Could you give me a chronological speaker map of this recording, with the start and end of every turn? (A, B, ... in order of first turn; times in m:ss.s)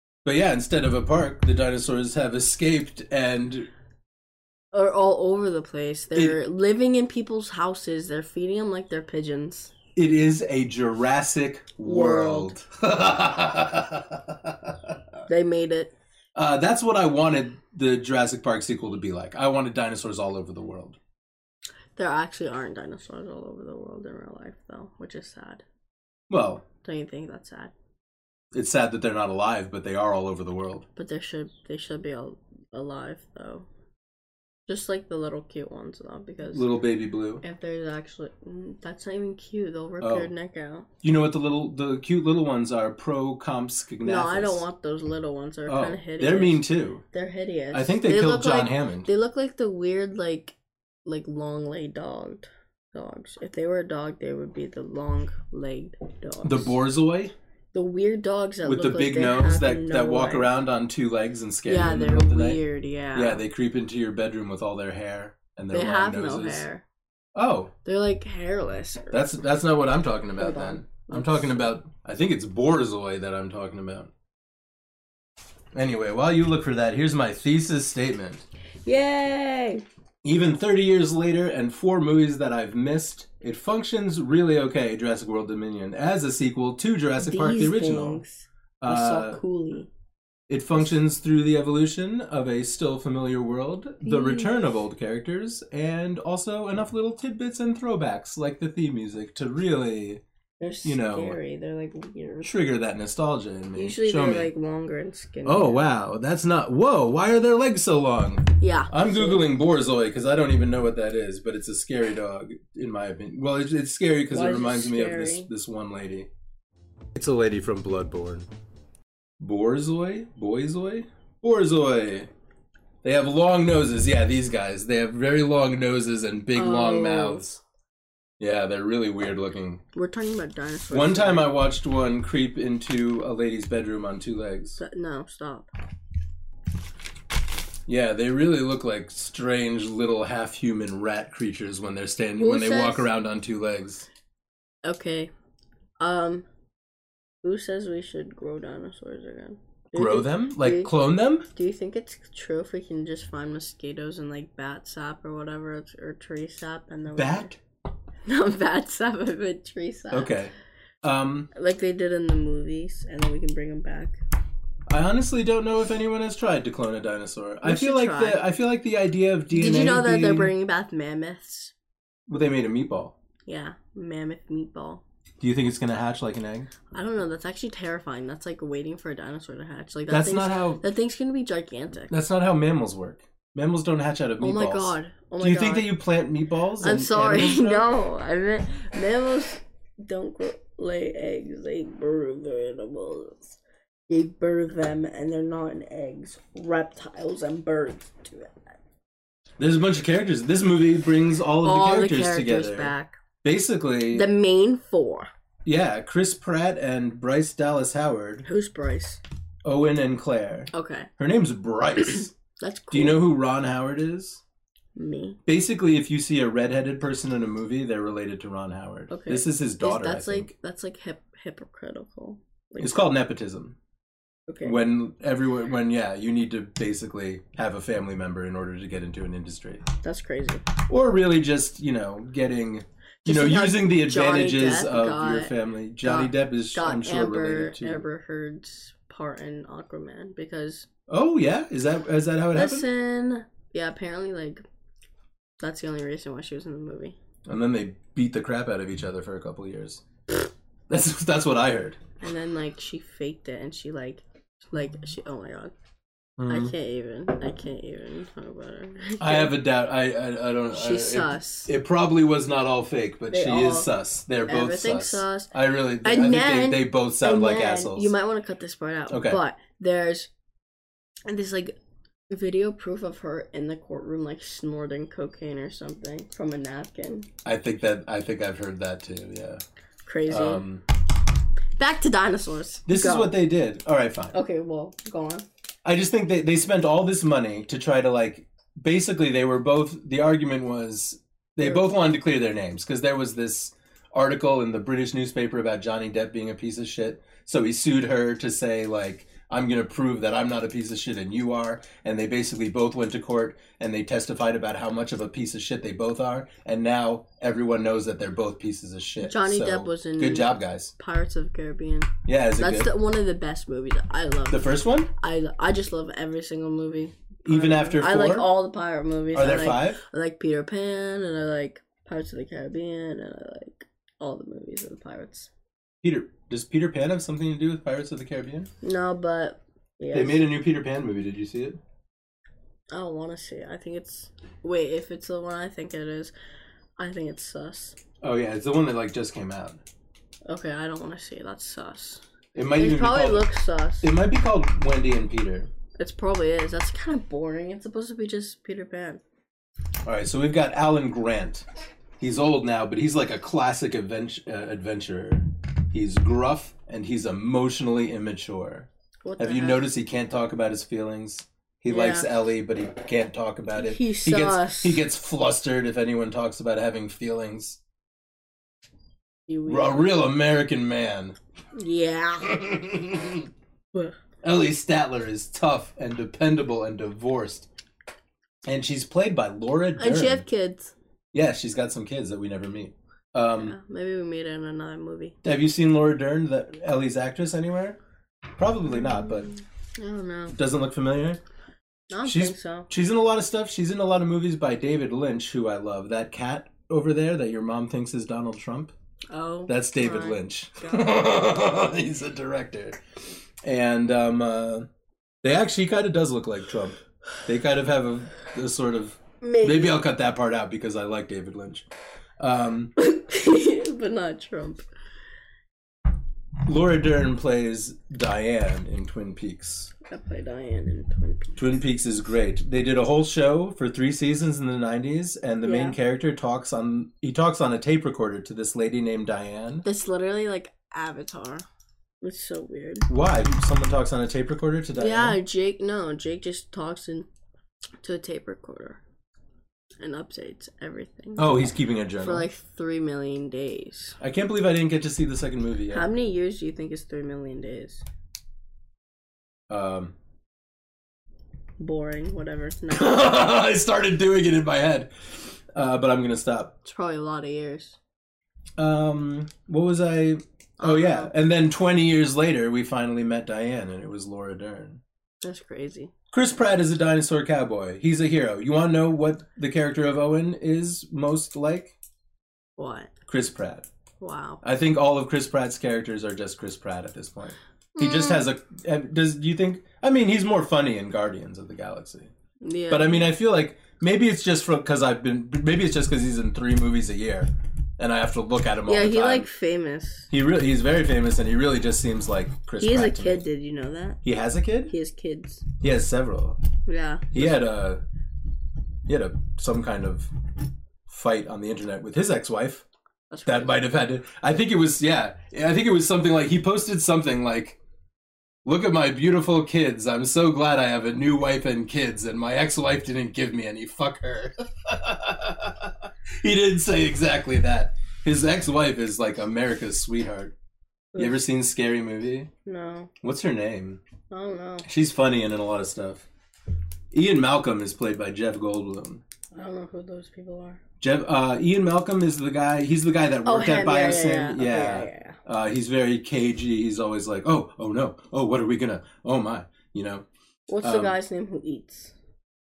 0:00.2-0:03.7 A
0:04.7-0:09.7 B
0:09.9-0:15.0 A
0:11.8-0:12.5 B
0:15.3-0:15.9 B
0:16.3-0:21.0 A
0:22.0-0:25.6 B
0:26.3-0:26.6 A
0:26.8-0:27.7 B
0:28.5-0:30.8 A
0:31.0-0:33.7 B
0:34.7-0:36.7 B
0:36.5-0:37.4 A
0:37.4-0:40.9 B
0:40.0-0:40.3 A
0:41.0-0:44.6 A
0:44.0-0:50.5 B
0:45.6-0:47.0 A
0:47.7-0:49.1 A
0:51.0-0:56.7 B
0:56.4-0:57.3 A
0:57.7-1:00.5 B
0:58.6-1:02.6 A
1:01.7-1:03.4 B
1:03.1-1:06.6 A
1:05.7-1:06.8 B
1:07.3-1:07.7 A
1:07.8-1:09.2 B
1:09.1-1:14.1 A
1:10.4-1:11.7 B
1:15.7-1:18.4 A
1:18.8-1:19.8 B
1:20.2-1:28.2 A
1:27.2-1:29.9 B
1:28.8-1:29.4 A
1:30.5-1:40.2 A
1:34.0-1:34.8 B
1:40.6-1:42.5 B
1:40.8-1:41.4 A
1:42.4-1:44.5 A
1:43.7-1:45.8 B
1:45.4-1:56.3 A
1:48.6-1:49.4 B
1:54.3-1:55.5 B
1:57.1-1:58.4 A
1:59.4-2:02.3 A
2:03.0-2:07.6 A
2:06.5-2:07.4 B
2:08.4-2:09.8 A
2:09.9-2:11.5 B
2:10.9-2:14.8 A
2:14.8-2:15.7 B
2:17.8-2:24.1 A
2:22.4-2:23.1 B
2:24.8-2:25.3 B
2:26.0-2:26.4 B
2:27.4-2:30.9 B
2:29.9-2:31.5 A
2:31.5-2:37.5 B
2:37.1-2:37.6 A
2:38.2-2:40.4 B
2:40.1-2:41.5 A
2:41.5-2:44.2 B
2:44.9-2:50.5 A
2:47.6-2:48.4 B
2:49.5-2:51.7 B
2:52.3-2:53.1 A
2:53.5-2:55.0 B
2:55.4-2:56.7 A
2:56.9-3:02.1 B
3:00.1-3:00.8 A
3:02.1-3:07.9 A
3:04.4-3:05.9 B
3:06.8-3:18.6 B
3:19.6-3:24.2 A
3:21.6-3:23.2 B
3:24.1-3:25.3 B
3:25.6-3:28.4 A
3:28.4-3:29.2 B
3:29.6-3:32.3 A
3:30.7-3:31.1 B
3:32.0-3:33.2 B
3:32.9-3:34.4 A
3:35.0-3:35.4 B
3:35.4-3:40.5 A
3:39.1-3:43.1 B
3:42.8-3:43.7 A
3:44.5-3:44.8 B
3:44.6-3:49.8 A
3:50.0-3:50.7 B
3:50.9-3:58.0 A
3:53.2-4:00.9 B
4:01.1-4:02.8 A
4:02.5-4:04.6 B
4:05.6-4:07.2 B
4:07.4-4:10.0 A
4:10.9-4:12.0 A
4:12.2-4:15.7 B
4:16.4-4:16.7 A
4:16.5-4:19.6 B
4:19.2-4:28.1 A
4:20.7-4:21.7 B
4:23.3-4:23.9 B
4:24.4-4:30.3 B
4:29.1-4:29.4 A
4:31.3-4:31.7 B
4:32.3-4:37.3 B
4:37.4-4:39.6 A
4:40.0-4:40.6 B
4:40.3-4:40.8 A
4:41.8-4:43.4 B
4:42.9-4:44.4 A
4:44.3-4:45.4 B
4:45.8-5:10.9 A
4:51.6-4:51.9 B
5:09.2-5:25.5 B
5:12.2-5:12.9 A
5:14.5-5:15.1 A
5:17.4-5:18.5 A
5:19.3-5:20.0 A
5:26.0-5:28.7 A
5:28.8-5:30.5 B
5:30.1-5:31.8 A
5:32.9-5:36.3 B
5:37.0-5:38.0 B
5:38.2-5:39.8 A
5:40.5-5:42.2 B
5:42.5-5:43.5 A
5:42.7-5:44.1 B
5:44.0-5:45.7 A
5:46.0-5:49.2 B
5:50.0-5:51.6 A
5:52.2-6:07.8 A
5:59.2-5:59.8 B
6:01.9-6:02.3 B
6:03.8-6:05.0 B
6:09.5-6:10.2 B
6:09.7-6:11.4 A
6:11.7-6:12.6 B
6:12.4-6:13.5 A
6:14.4-6:17.7 A
6:18.6-6:20.4 A
6:20.0-6:20.9 B
6:21.3-6:23.8 A
6:23.5-6:25.4 B
6:25.4-6:28.0 A
6:28.6-6:29.5 A
6:28.8-6:30.6 B
6:30.5-6:31.4 A
6:32.1-6:32.9 B
6:32.2-6:38.9 A
6:39.3-6:41.1 B
6:39.7-6:43.0 A
6:43.6-6:44.9 A
6:45.4-6:51.9 A
6:49.4-6:50.0 B
6:52.4-6:52.9 A
6:53.0-6:54.8 B
6:56.6-6:59.9 A
7:00.0-7:01.8 B
7:01.6-7:09.8 A
7:05.6-7:06.0 B
7:09.8-7:11.6 B
7:12.2-7:13.1 B
7:13.1-7:15.4 A
7:15.0-7:17.3 B
7:18.0-7:19.0 B
7:20.0-7:24.2 B
7:21.4-7:22.5 A
7:24.2-7:26.1 A
7:25.9-7:28.0 B
7:29.7-7:30.1 A
7:31.8-7:33.3 B
7:32.9-7:35.1 A
7:35.7-7:36.7 A
7:36.8-7:38.0 B
7:38.8-7:45.0 A
7:40.8-7:41.3 B
7:45.4-7:46.1 B
7:46.3-7:51.9 A
7:52.8-7:53.1 B
7:53.3-7:53.8 A
7:54.2-7:54.6 B
7:54.6-8:02.3 A
7:57.9-7:58.4 B
8:02.6-8:03.3 B
8:02.9-8:09.5 A
8:08.9-8:10.3 B
8:10.3-8:13.4 A
8:12.8-8:14.2 B
8:14.2-8:14.9 A
8:14.9-8:15.6 B
8:15.8-8:16.6 A
8:16.9-8:17.6 B
8:17.3-8:18.0 A
8:19.1-8:20.3 A
8:21.1-8:22.8 A
8:23.3-8:23.8 B
8:23.4-8:27.8 A
8:28.6-8:40.5 A
8:41.1-8:41.4 B
8:41.2-8:42.5 A
8:42.6-8:43.1 B
8:43.2-8:44.0 A
8:44.3-8:44.9 B
8:44.8-8:46.2 A
8:47.1-8:49.2 A
8:49.5-8:50.8 B
8:51.0-9:00.2 A
8:53.4-8:55.4 B
9:00.7-9:02.1 B
9:00.8-9:01.2 A